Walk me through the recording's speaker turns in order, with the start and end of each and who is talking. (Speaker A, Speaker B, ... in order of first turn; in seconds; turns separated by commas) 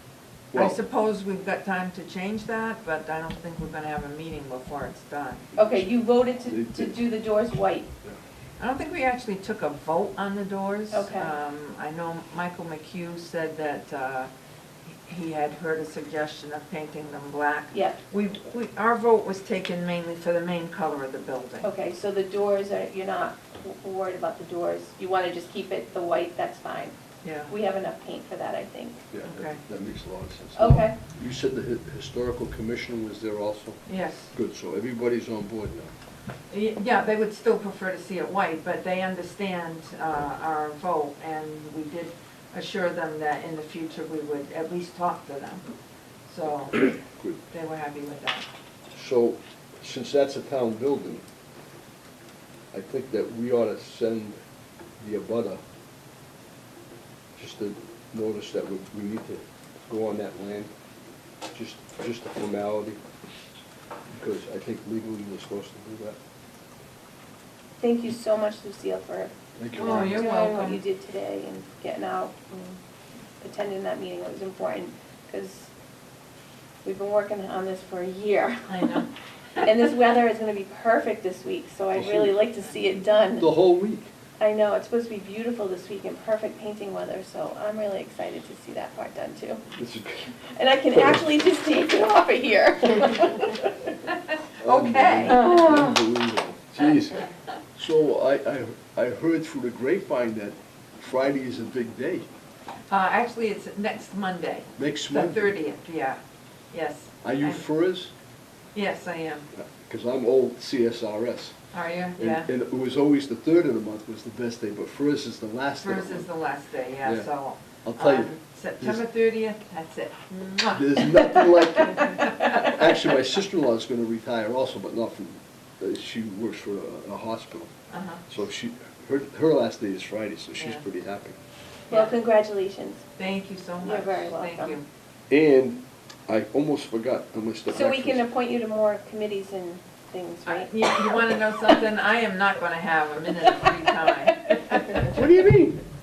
Speaker A: 0.5-0.8, Speaker B: 0.5-5.5, Speaker C: 5.6-7.9, Speaker A: 6.5-7.0, Speaker B: 8.6-14.3, Speaker C: 10.9-11.3, Speaker B: 14.9-21.7, Speaker C: 17.7-18.0, Speaker C: 21.6-26.9, Speaker B: 27.2-27.5, Speaker C: 27.5-29.1, Speaker A: 29.1-33.8, Speaker B: 29.2-29.6, Speaker C: 30.6-31.0, Speaker B: 33.9-34.3, Speaker A: 34.3-35.9, Speaker B: 36.5-45.6, Speaker B: 46.3-48.5, Speaker A: 46.9-47.4, Speaker A: 48.9-51.2, Speaker A: 52.7-54.4, Speaker A: 55.0-55.6, Speaker A: 57.4-60.7, Speaker A: 61.5-63.0, Speaker A: 64.1-66.2, Speaker C: 67.8-72.8, Speaker A: 69.6-70.2, Speaker B: 69.8-70.8, Speaker C: 73.4-75.7, Speaker C: 76.8-79.1, Speaker B: 78.7-79.1, Speaker C: 79.6-83.5, Speaker A: 81.9-82.4, Speaker A: 83.4-84.1, Speaker C: 84.4-89.6, Speaker A: 89.8-90.4, Speaker C: 90.5-93.7, Speaker A: 90.9-91.3, Speaker B: 94.0-95.4, Speaker A: 94.6-102.3, Speaker C: 95.2-96.0, Speaker B: 102.9-106.2, Speaker A: 104.8-105.5, Speaker B: 106.7-107.6, Speaker A: 107.2-108.1, Speaker B: 108.8-109.5, Speaker A: 109.5-111.6, Speaker B: 111.7-112.5, Speaker A: 112.2-116.3, Speaker B: 115.8-122.8, Speaker A: 117.0-117.3, Speaker A: 117.8-119.0, Speaker A: 120.7-127.7, Speaker B: 127.9-128.2, Speaker A: 128.3-131.4, Speaker B: 130.6-130.8, Speaker C: 131.9-133.1, Speaker B: 131.9-132.2, Speaker B: 133.2-134.9, Speaker C: 133.8-134.8, Speaker A: 135.3-138.2, Speaker C: 137.7-141.2, Speaker B: 140.5-145.2, Speaker A: 145.1-145.8